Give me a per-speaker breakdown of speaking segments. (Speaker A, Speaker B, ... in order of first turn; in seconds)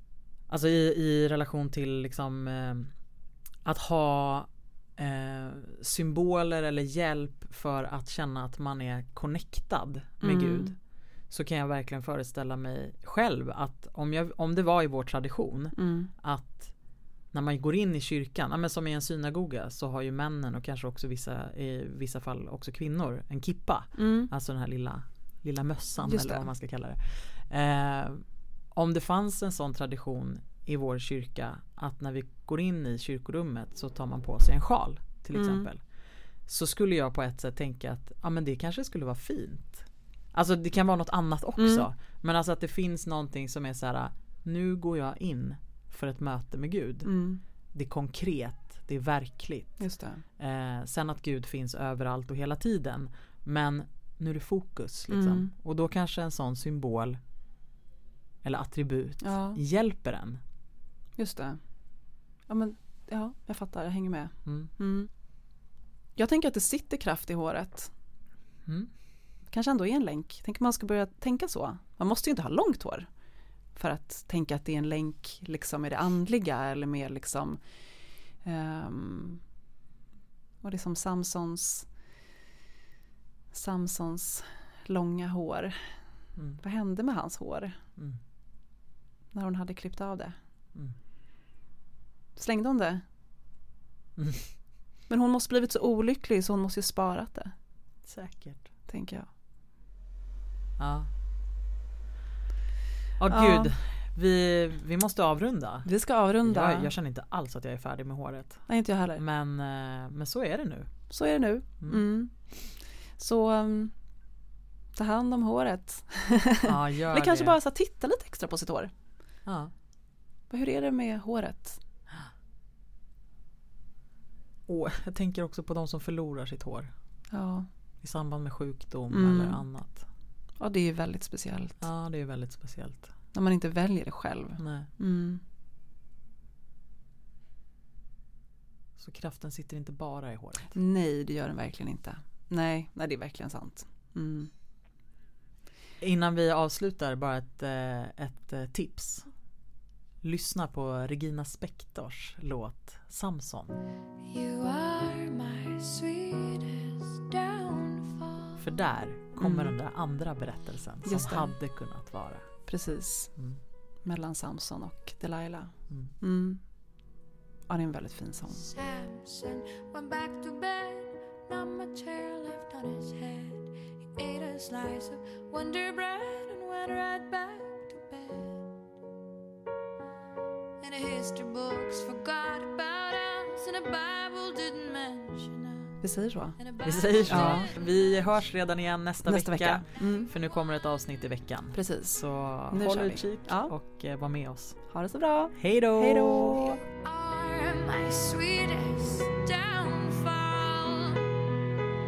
Speaker A: 0.5-2.9, 3.6-16.8, 17.3-47.2, 47.7-57.2, 58.4-60.4, 68.7-68.9, 86.4-86.6, 94.2-94.5, 98.0-98.7, 100.8-101.1, 103.2-111.2, 116.7-117.6, 119.5-119.7, 124.7-126.9, 128.0-130.1, 131.8-133.1, 134.6-134.9, 139.0-140.8, 146.0-149.3, 150.2-153.8, 158.6-162.7, 186.8-194.8, 195.6-196.8
Speaker B: 10.2-10.7, 15.8-16.1, 24.0-24.3, 26.0-26.5, 35.3-35.7, 41.6-41.9, 47.0-47.4, 49.8-50.2, 55.1-55.5, 59.2-59.6, 61.2-61.6, 62.5-65.1, 66.2-67.9, 69.5-73.1, 73.8-77.6, 78.4-79.4, 80.6-81.9, 83.5-86.0, 86.6-87.8, 89.3-90.4, 92.4-93.0, 95.1-97.5, 98.9-99.3, 103.3-103.7, 105.9-106.9, 108.7-109.2, 111.1-114.0, 115.0-118.9, 120.5-121.8, 127.3-127.7, 129.1-129.6, 130.6-131.8, 133.3-135.4, 140.7-144.5, 159.4-159.7, 161.1-161.5, 162.7-163.3, 164.0-166.6, 167.7-168.7, 186.0-186.6, 187.3-187.7, 189.2-190.3, 191.7-193.7, 194.9-196.8
Speaker C: 154.2-158.8, 168.5-178.7, 180.8-186.0, 186.6-188.0, 196.9-201.3